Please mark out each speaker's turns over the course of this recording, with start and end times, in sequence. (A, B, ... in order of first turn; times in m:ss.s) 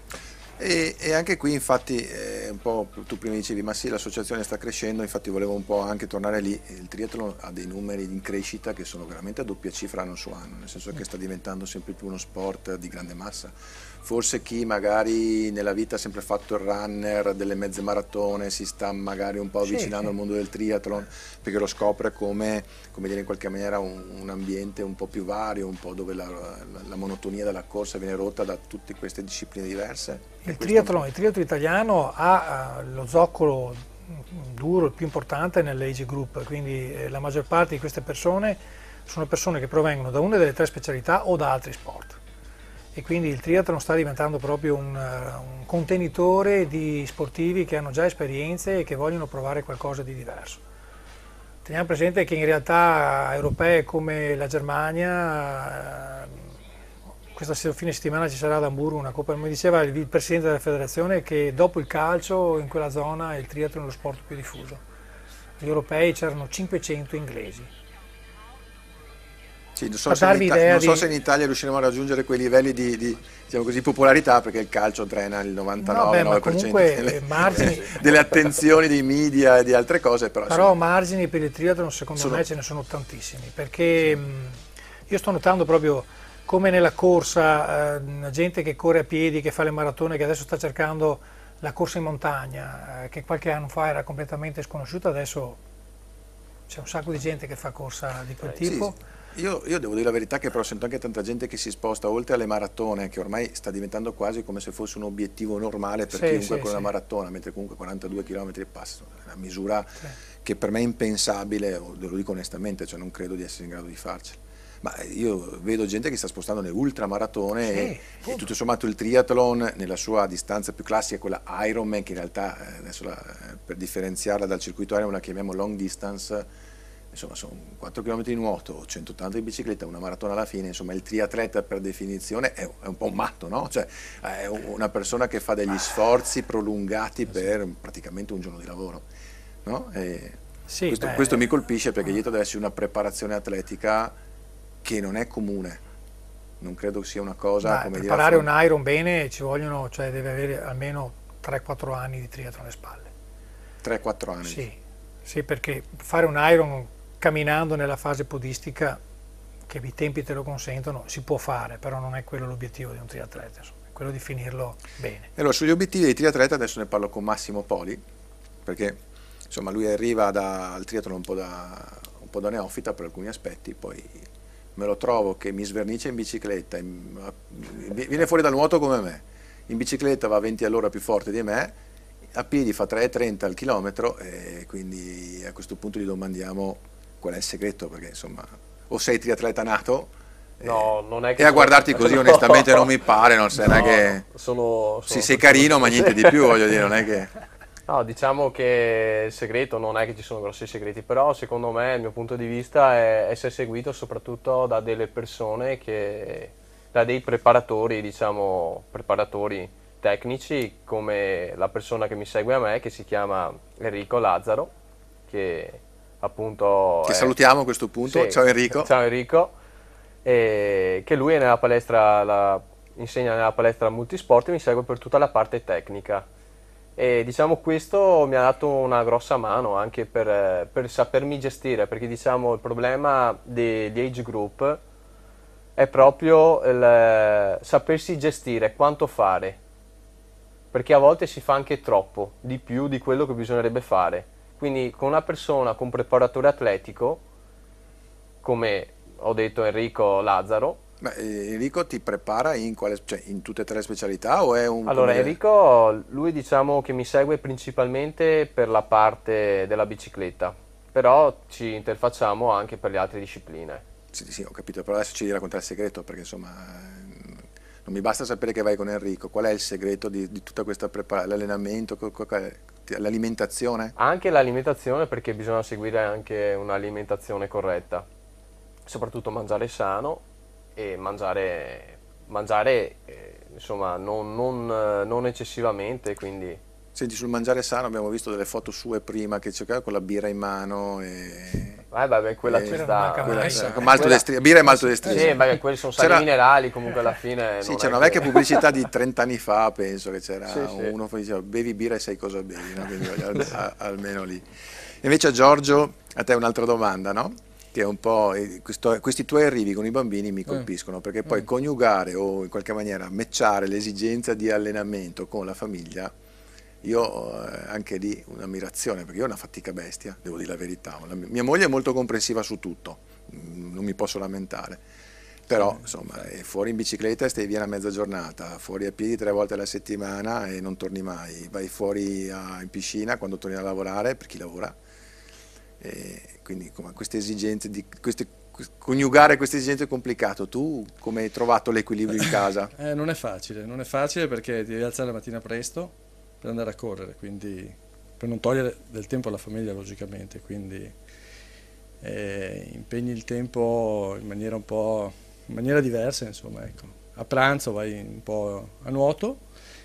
0:00.6-0:31.0 A
0:19.6-0:20.0 B
0:30.4-0:42.2 B
0:43.0-0:50.6 B
0:51.6-0:56.5 B
0:57.3-1:04.8 B
1:05.6-1:07.7 B
1:09.8-1:20.8 A
1:10.1-1:11.1 B
1:15.8-1:18.0 B
1:20.5-1:35.6 B
1:22.2-1:22.4 A
1:36.7-1:39.0 B
1:38.6-2:06.5 A
1:46.1-1:46.9 B
1:57.6-1:58.4 B
2:07.1-2:19.0 A
2:19.6-2:24.2 A
2:20.7-2:21.5 B
2:24.8-2:25.8 A
2:26.6-2:28.5 A
2:27.6-2:33.1 B
2:33.8-2:34.6 A
2:34.4-2:39.0 B
2:39.7-2:45.3 B
2:45.4-2:48.0 A
2:48.6-3:01.8 A
3:02.3-3:14.2 A
3:10.6-3:12.9 C
3:13.6-3:16.6 C
3:15.1-3:17.3 A
3:17.9-3:34.7 C
3:35.3-3:37.3 C
3:37.0-3:38.9 A
3:38.0-3:39.5 C
3:40.2-3:46.2 C
3:47.0-3:54.8 C
3:55.8-3:59.6 C
4:00.7-4:07.2 C
4:08.4-4:10.8 C
4:11.0-4:15.4 A
4:14.8-4:23.8 C
4:24.1-4:33.9 A
4:34.0-4:38.0 C
4:38.8-4:40.2 C
4:40.8-4:46.6 C
4:47.0-4:51.8 A
4:51.9-4:54.2 C
4:52.4-4:56.3 A
4:52.6-4:54.2 B
4:55.0-4:58.6 C
4:57.6-5:04.5 A
5:00.5-5:01.0 C
5:05.0-5:16.1 A
5:16.8-5:24.8 A
5:25.5-5:34.8 A
5:35.8-5:42.7 A
5:42.8-5:51.0 D
5:52.0-5:59.4 D